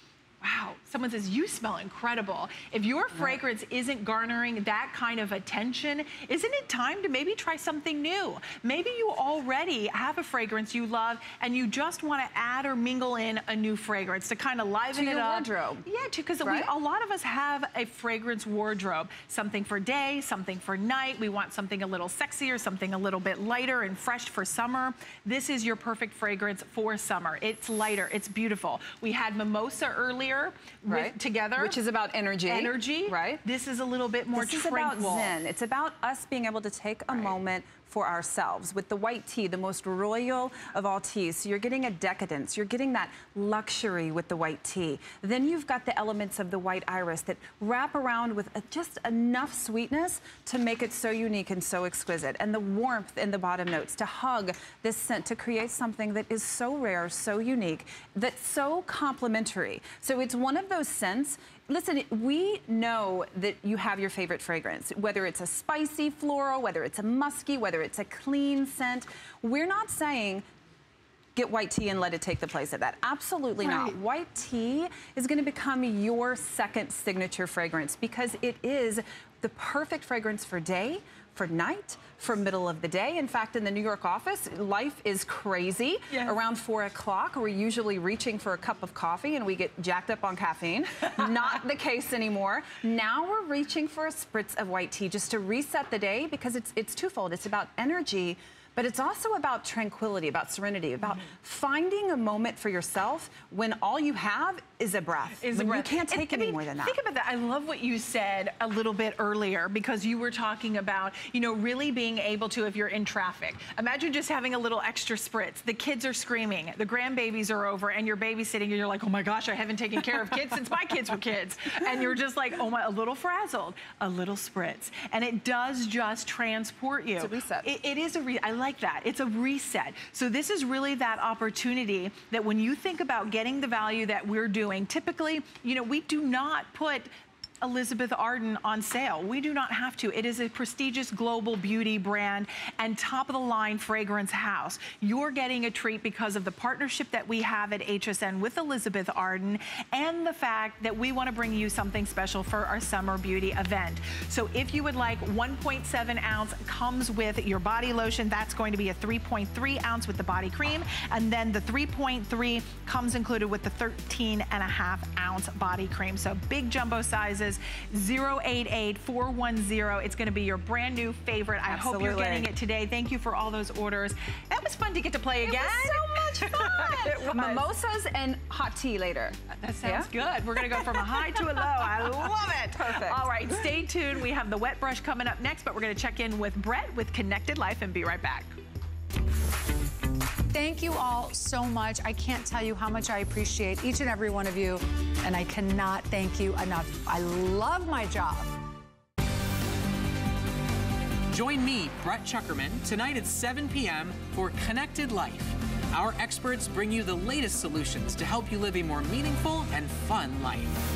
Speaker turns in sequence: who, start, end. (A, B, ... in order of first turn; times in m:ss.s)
0:00.4-0:31.8 A
0:14.9-0:15.8 B
0:16.4-0:16.7 B
0:30.9-0:33.4 B
0:32.4-0:35.3 A
0:34.3-1:10.4 B
1:11.4-1:47.0 B
1:13.6-1:13.9 A
1:45.4-2:17.1 A
2:07.2-2:07.7 B
2:17.6-2:57.6 A
2:51.6-2:52.5 B
2:55.4-3:03.6 B
2:59.6-3:08.5 A
3:10.5-3:18.5 C
3:21.3-3:30.8 D